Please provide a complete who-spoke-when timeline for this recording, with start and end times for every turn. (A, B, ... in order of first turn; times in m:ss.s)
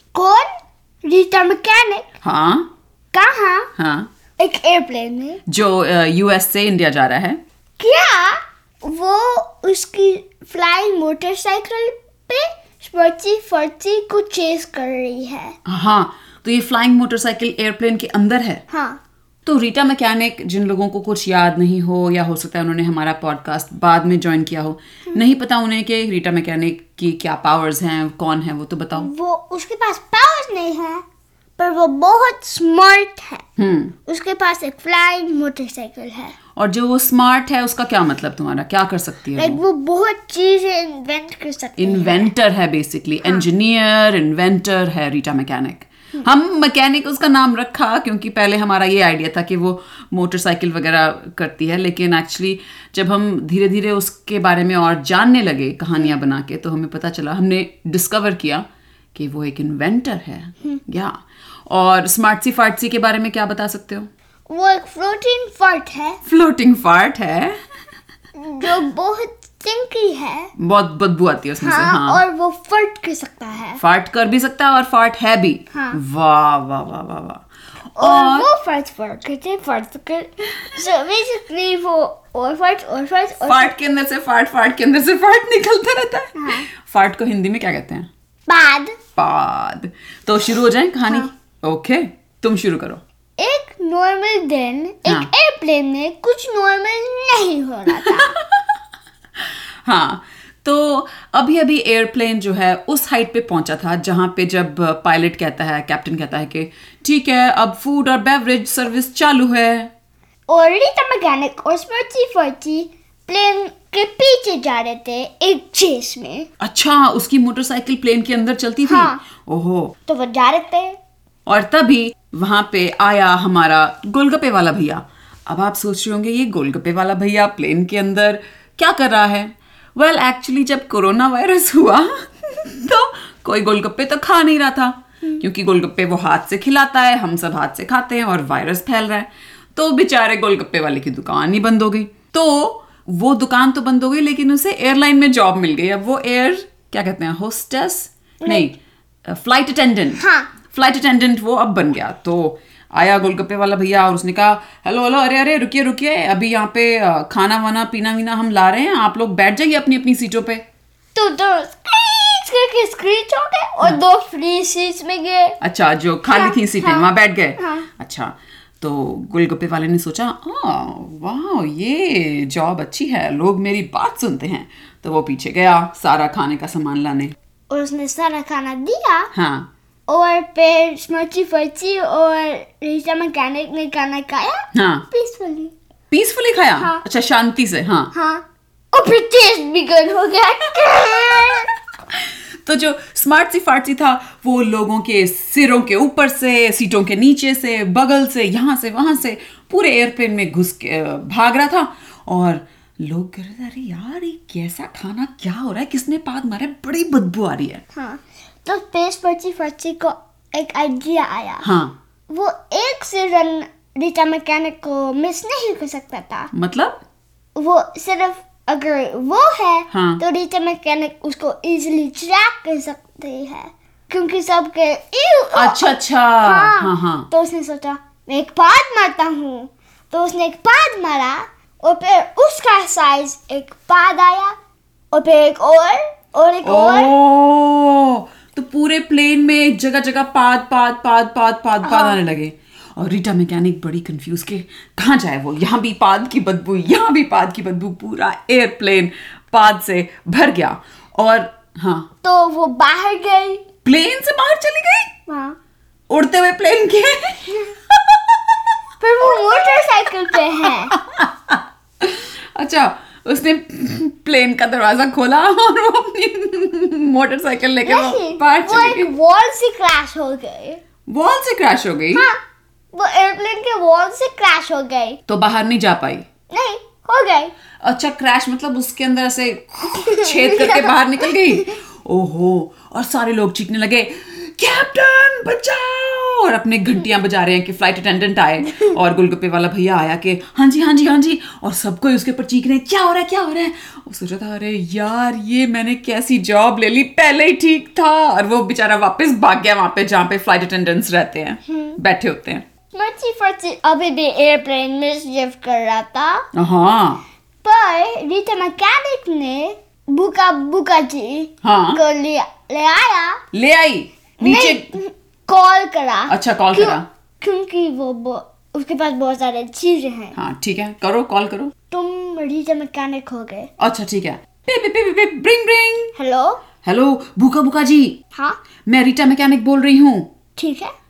0:00.1-0:00.5 A
0:01.0-0:02.1 A
0:02.2-0:02.7 B
0:03.1-0:03.7 A
0:03.8-0:04.1 B
0:04.4-0:05.4 A
0:05.5-0:07.4 B
0:07.8-0:15.6 A
0:15.7-0:18.6 B
0:18.7-0:19.0 A
0:19.4-0:29.1 B
0:29.0-0:31.0 A
0:31.6-0:33.4 A
0:33.6-0:34.0 B
0:34.1-0:36.4 A
0:36.6-0:39.6 B
0:39.4-0:42.3 A
0:41.8-1:01.2 B
1:01.7-1:04.1 B
1:04.5-1:06.2 A
1:06.2-1:07.6 B
1:08.4-1:10.5 A
1:10.6-1:12.2 B
1:11.6-1:13.8 A
1:13.8-1:18.5 B
1:15.7-1:16.0 A
1:18.0-1:23.7 A
1:23.4-1:28.1 B
1:26.4-1:26.7 A
1:28.5-1:29.0 A
1:29.2-1:33.0 B
1:33.4-1:38.3 A
1:37.9-1:38.7 B
1:39.4-1:49.9 B
1:50.5-1:56.5 A
1:56.6-1:59.9 B
1:58.8-1:59.2 A
2:00.1-2:01.0 A
2:01.5-2:40.6 B
2:28.4-2:28.7 A
2:30.2-2:30.5 A
2:41.2-2:45.6 A
2:45.6-2:57.3 B
2:46.2-2:47.9 A
2:57.7-2:59.3 A
2:59.3-2:59.7 B
3:00.1-3:05.7 A
3:04.7-3:05.1 B
3:06.1-3:08.1 B
3:08.1-3:11.7 A
3:10.8-3:11.6 B
3:12.1-3:27.8 B
3:27.9-3:31.7 A
3:31.6-3:32.0 B
3:32.3-3:36.5 A
3:36.5-3:37.0 B
3:37.6-3:54.6 A
3:39.9-3:40.2 B
3:45.5-3:47.3 B
3:55.1-3:57.1 A
3:56.6-4:12.1 B
4:01.8-4:02.2 A
4:12.2-4:13.6 A
4:13.8-4:15.1 B
4:15.3-4:15.6 A
4:16.1-4:18.6 B
4:19.0-4:20.9 A
4:19.2-4:19.9 B
4:20.9-4:29.1 B
4:27.8-4:30.8 A
4:31.1-4:32.3 B
4:32.1-4:32.4 A
4:32.9-4:35.2 A
4:35.3-4:36.2 B
4:36.5-4:37.5 A
4:37.8-5:02.6 B
4:39.9-4:40.9 A
5:01.7-5:02.0 A
5:02.9-5:06.5 A
5:06.5-5:07.2 B
5:07.6-5:13.4 A
5:11.6-5:12.0 B
5:13.5-5:14.9 B
5:14.4-5:20.4 A
5:16.3-5:17.1 B
5:20.4-5:21.7 B
5:21.9-5:23.7 A
5:23.8-5:26.1 B
5:26.2-5:26.6 A
5:26.8-5:28.2 B
5:28.3-5:28.6 A
5:28.9-5:30.3 B
5:30.6-5:30.9 A